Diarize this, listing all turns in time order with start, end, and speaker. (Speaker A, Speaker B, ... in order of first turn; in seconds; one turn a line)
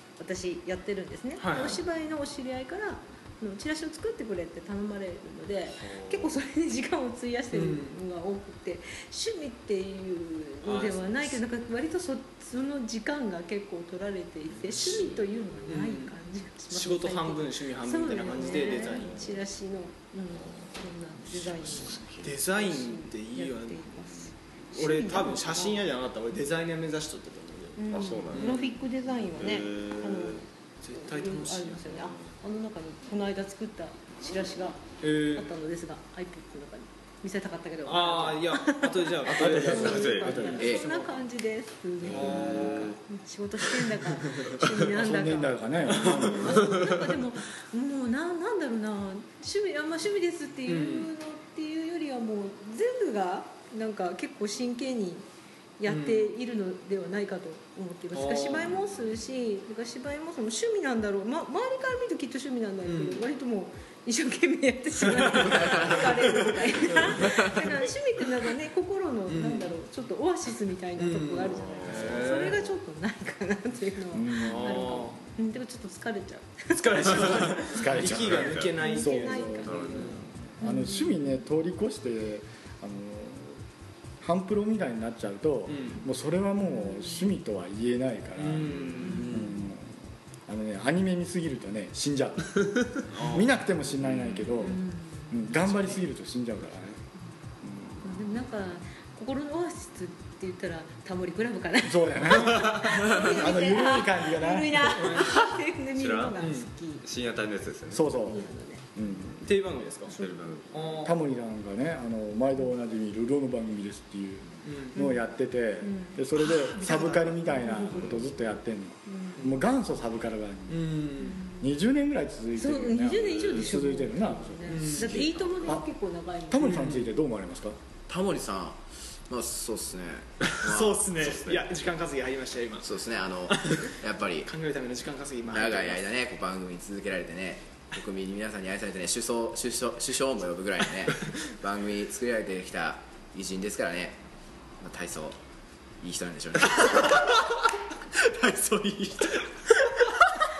Speaker A: 0.2-22.0
Speaker B: 1.4-1.8
Speaker B: 7.5-8.0
Speaker B: 10.6-11.4
Speaker B: 15.7-16.1
Speaker B: 16.7-19.3
Speaker C: 21.5-22.3
Speaker B: 22.2-23.9
Speaker A: 22.5-25.9
Speaker B: 24.7-27.8
Speaker A: 27.8-55.3
Speaker C: 27.9-28.7
Speaker B: 28.3-28.7
Speaker C: 29.4-30.4
Speaker B: 30.8-32.0
Speaker B: 35.0-35.5
Speaker B: 37.9-41.1
Speaker C: 39.3-40.7
Speaker D: 39.3-40.6
Speaker E: 40.6-40.9
Speaker B: 42.0-42.9
Speaker C: 42.0-43.0
Speaker D: 44.8-46.6
Speaker C: 46.7-47.0
Speaker B: 50.7-51.1
Speaker A: 55.8-77.6
Speaker B: 55.9-56.3
Speaker B: 58.1-58.7
Speaker B: 62.9-63.2
Speaker B: 65.1-67.2
Speaker E: 65.7-66.0
Speaker E: 67.2-67.7
Speaker B: 69.3-69.7
Speaker B: 71.0-72.6
Speaker C: 71.6-72.5
Speaker D: 74.1-75.2
Speaker B: 74.3-75.2
Speaker B: 76.7-80.2
Speaker D: 77.7-83.6
Speaker C: 78.1-78.7
Speaker A: 78.8-81.4
Speaker C: 79.7-80.2
Speaker D: 84.2-97.0
Speaker B: 85.7-86.0
Speaker B: 88.4-89.3
Speaker C: 88.7-89.2
Speaker A: 89.0-89.4
Speaker E: 89.1-89.5
Speaker B: 93.1-93.5
Speaker A: 94.6-95.4
Speaker D: 97.6-98.2
Speaker A: 98.0-107.0
Speaker D: 101.8-105.0
Speaker B: 105.0-105.3
Speaker C: 106.0-106.4
Speaker B: 106.4-106.7
Speaker C: 107.0-108.2
Speaker D: 107.9-108.4
Speaker A: 108.2-108.8
Speaker D: 109.0-109.5
Speaker B: 109.4-110.2
Speaker C: 110.1-110.9
Speaker B: 110.7-111.2
Speaker D: 111.0-120.9
Speaker B: 114.7-115.0
Speaker A: 115.0-115.2
Speaker A: 115.8-116.2
Speaker A: 116.8-118.2
Speaker A: 119.1-119.4
Speaker B: 120.7-121.4
Speaker A: 121.2-121.6
Speaker D: 121.5-124.9
Speaker A: 122.6-126.9
Speaker B: 124.7-125.3
Speaker E: 124.9-125.8
Speaker D: 126.5-127.8
Speaker B: 126.6-127.1
Speaker E: 128.1-131.1
Speaker B: 130.5-132.9
Speaker C: 131.2-131.7
Speaker E: 132.8-134.5
Speaker B: 133.5-133.9
Speaker B: 134.4-136.0
Speaker E: 135.5-144.2
Speaker E: 144.8-145.4
Speaker E: 146.0-147.2
Speaker B: 146.8-147.3
Speaker B: 148.2-150.3